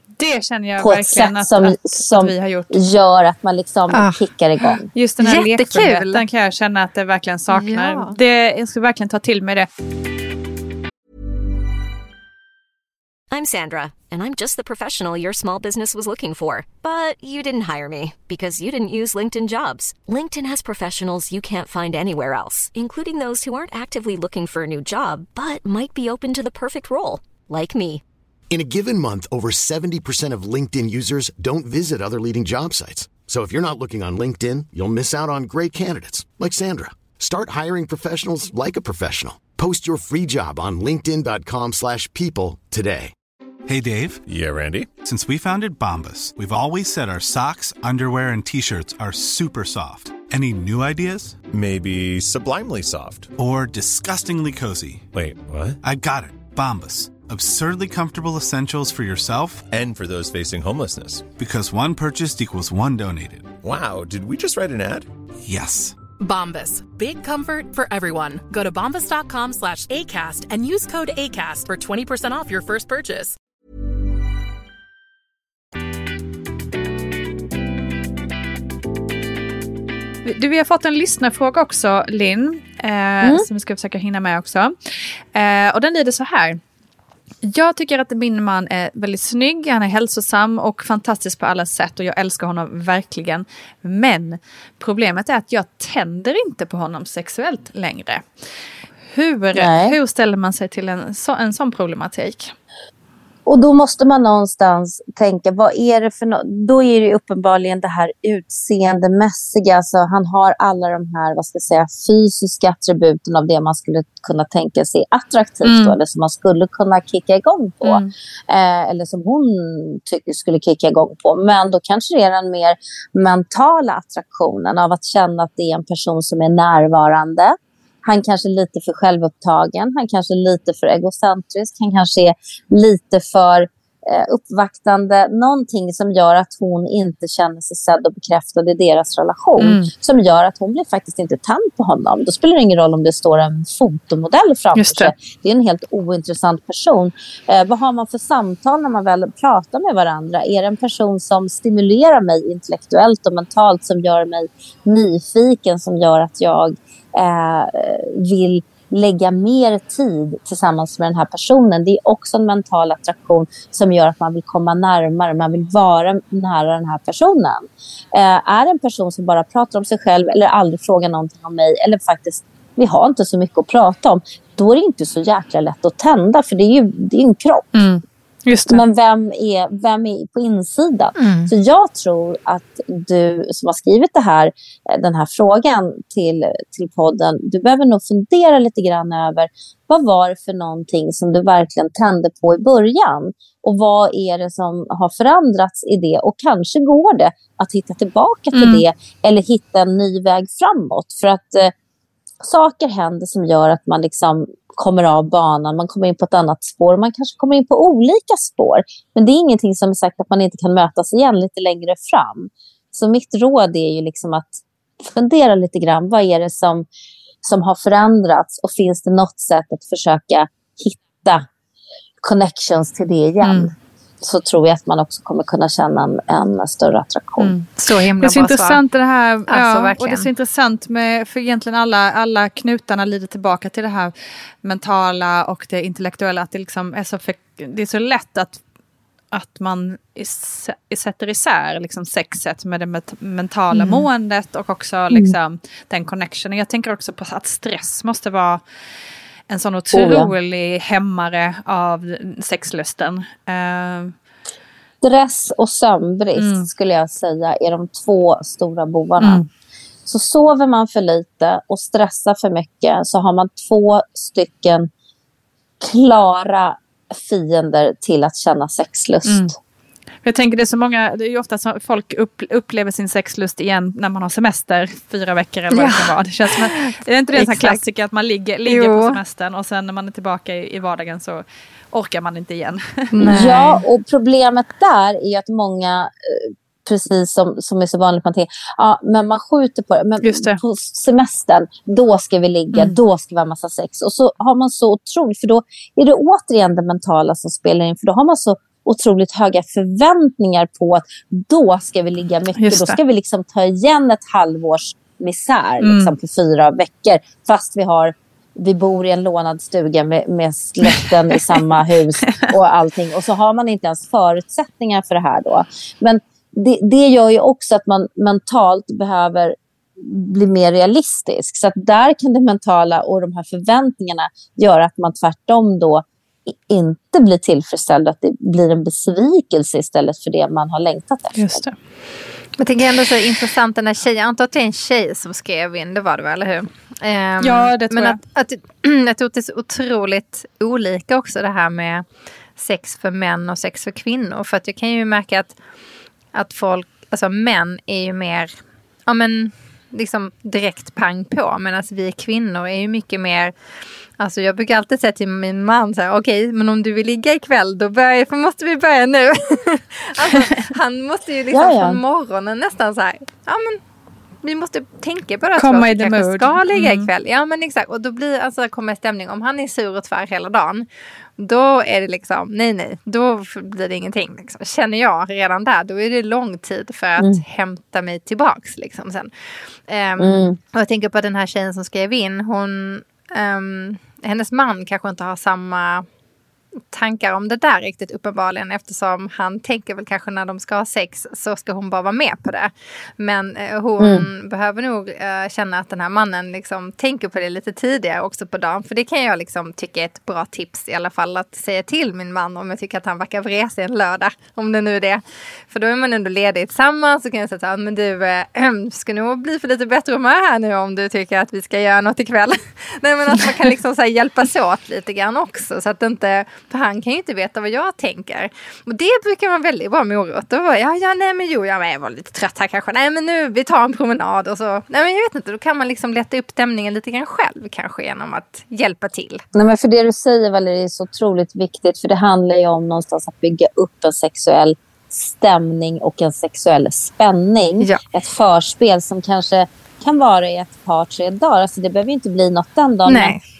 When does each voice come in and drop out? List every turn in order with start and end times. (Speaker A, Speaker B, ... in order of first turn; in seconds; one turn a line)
Speaker A: 0.2-2.8
Speaker B: 0.8-4.9
Speaker C: 3.9-4.2
Speaker A: 4.9-9.7
Speaker C: 5.2-6.2
Speaker C: 7.5-8.2
Speaker D: 13.3-28.0
Speaker E: 28.5-43.1
Speaker F: 43.6-44.2
Speaker G: 44.3-44.9
Speaker F: 45.0-51.4
Speaker G: 51.5-53.3
Speaker F: 53.4-55.1
Speaker G: 55.1-55.8
Speaker F: 55.8-59.7
Speaker G: 59.7-61.3
Speaker F: 61.4-63.5
Speaker G: 63.6-65.1
Speaker F: 65.4-66.0
Speaker H: 66.2-73.3
Speaker A: 80.2-84.7
Speaker A: 85.3-86.6
Speaker A: 87.4-98.2
Speaker A: 99.1-102.5
Speaker B: 99.5-99.9
Speaker B: 103.5-177.7
Speaker A: 115.6-116.0
Speaker A: 117.8-118.1
Speaker A: 139.6-139.9
Speaker A: 144.7-145.1
Speaker A: 177.7-178.8
Speaker B: 178.7-201.7
Speaker C: 181.2-181.5
Speaker A: 198.5-198.8
Speaker B: 202.4-216.9
Speaker B: 217.4-221.4
Speaker B: 222.2-227.5
Speaker A: 223.4-223.7
Speaker A: 227.4-238.6
Speaker C: 227.8-228.8
Speaker C: 229.5-230.3
Speaker A: 239.3-248.6
Speaker B: 243.7-244.0
Speaker B: 245.1-245.4
Speaker A: 249.5-254.1
Speaker B: 249.9-250.3
Speaker B: 255.0-259.4
Speaker A: 256.4-256.7
Speaker A: 259.2-259.5
Speaker B: 260.1-264.9
Speaker B: 265.8-269.6
Speaker A: 269.2-269.5
Speaker A: 270.2-283.6
Speaker C: 275.7-277.8
Speaker C: 278.6-279.2
Speaker C: 283.1-283.8
Speaker B: 283.3-331.6
Speaker A: 290.2-290.6
Speaker A: 302.6-303.0
Speaker A: 305.8-306.1
Speaker A: 310.9-311.6
Speaker A: 331.4-331.7
Speaker C: 332.6-342.0
Speaker A: 337.4-338.2
Speaker C: 342.6-345.6
Speaker C: 346.3-348.5
Speaker C: 349.1-353.5
Speaker C: 354.2-363.8
Speaker B: 361.5-362.0
Speaker C: 364.4-370.9
Speaker A: 365.6-367.1
Speaker C: 371.4-379.3
Speaker C: 379.9-386.1
Speaker B: 380.2-380.6
Speaker C: 386.9-429.4
Speaker B: 394.0-394.3
Speaker B: 429.5-443.4
Speaker C: 443.1-443.4